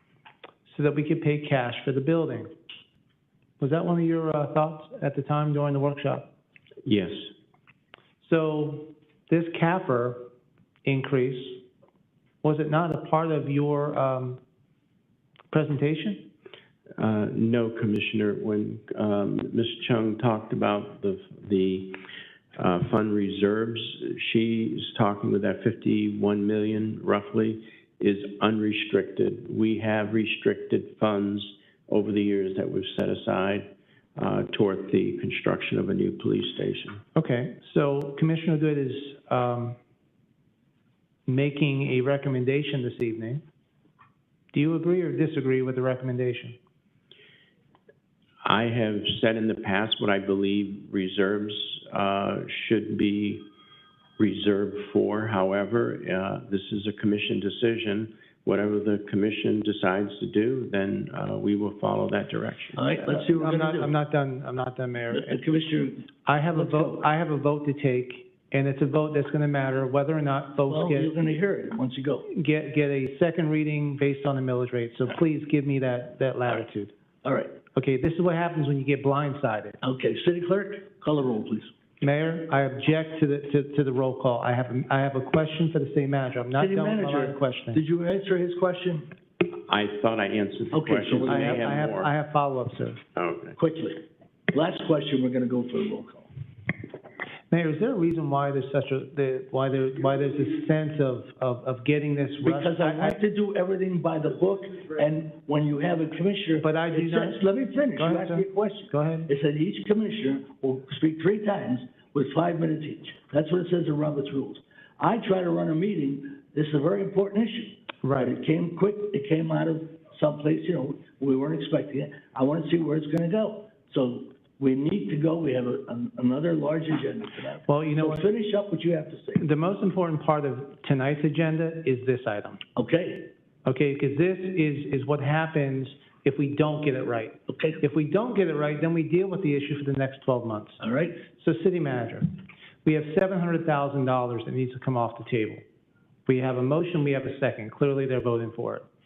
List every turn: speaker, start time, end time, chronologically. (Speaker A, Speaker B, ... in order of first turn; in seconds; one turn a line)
Speaker A: 0.7-2.5
Speaker A: 3.6-6.3
Speaker B: 6.8-7.3
Speaker A: 8.2-10.3
Speaker A: 10.8-11.6
Speaker A: 12.4-14.4
Speaker A: 15.5-16.3
Speaker B: 17.0-22.0
Speaker B: 22.6-37.0
Speaker A: 37.1-39.8
Speaker A: 41.3-43.4
Speaker A: 44.5-46.5
Speaker B: 48.4-53.5
Speaker B: 54.2-62.9
Speaker C: 62.8-63.9
Speaker A: 63.0-65.4
Speaker C: 65.1-67.0
Speaker A: 66.2-71.1
Speaker C: 70.7-72.3
Speaker A: 72.3-76.9
Speaker C: 77.2-77.6
Speaker A: 77.7-79.8
Speaker C: 79.8-81.7
Speaker A: 82.0-87.8
Speaker C: 86.6-89.1
Speaker B: 89.5-92.1
Speaker C: 90.7-91.6
Speaker A: 91.2-93.0
Speaker B: 93.2-93.5
Speaker C: 93.6-96.3
Speaker A: 97.5-103.2
Speaker C: 102.4-129.4
Speaker A: 106.6-107.4
Speaker A: 107.9-109.3
Speaker A: 118.0-118.3
Speaker A: 127.7-128.3
Speaker A: 129.4-132.6
Speaker C: 132.8-133.3
Speaker A: 133.7-140.8
Speaker C: 137.5-137.8
Speaker C: 140.8-141.2
Speaker A: 141.3-142.3
Speaker A: 142.8-145.6
Speaker A: 146.2-148.9